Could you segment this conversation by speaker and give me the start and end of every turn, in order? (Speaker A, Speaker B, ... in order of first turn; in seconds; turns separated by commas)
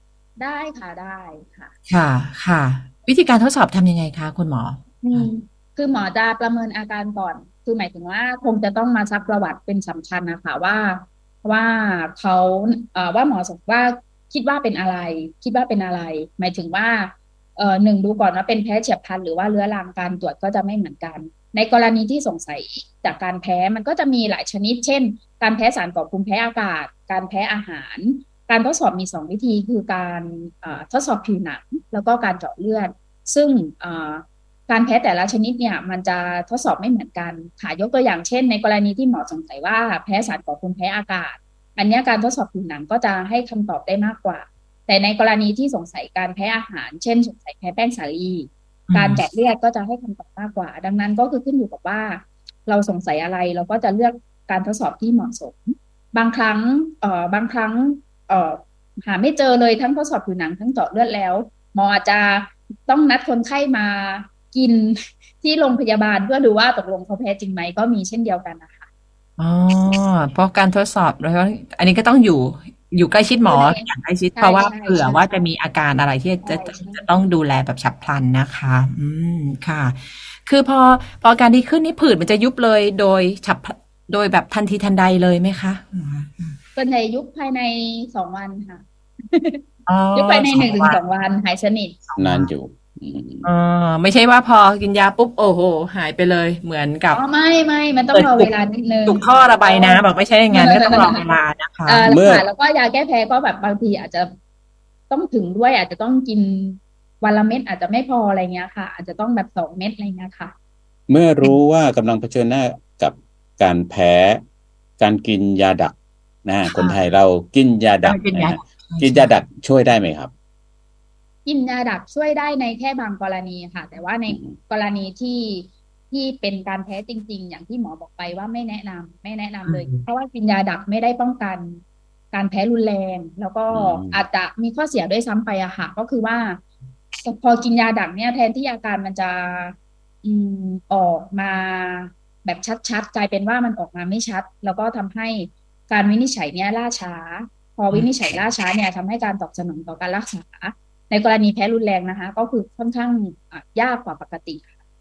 Speaker A: 0.4-1.7, Speaker B: 1.9-5.3, Speaker A: 5.0-68.9, Speaker B: 48.9-49.2, Speaker B: 69.4-86.6, Speaker A: 73.5-75.4, Speaker A: 76.4-77.1, Speaker A: 86.8-89.6, Speaker B: 89.9-91.0, Speaker A: 90.1-92.0, Speaker B: 92.1-92.5, Speaker C: 92.2-93.5, Speaker B: 93.4-97.2, Speaker A: 97.1-101.2, Speaker B: 98.1-98.5, Speaker B: 99.0-102.1, Speaker A: 101.8-104.3, Speaker C: 102.1-102.4, Speaker A: 105.1-110.5, Speaker C: 111.1-114.4, Speaker C: 115.0-120.3, Speaker B: 116.6-117.0, Speaker B: 118.0-119.3, Speaker A: 121.4-131.8, Speaker C: 124.3-124.5, Speaker B: 129.7-130.1, Speaker A: 132.3-136.6, Speaker C: 133.7-134.2, Speaker A: 137.2-154.7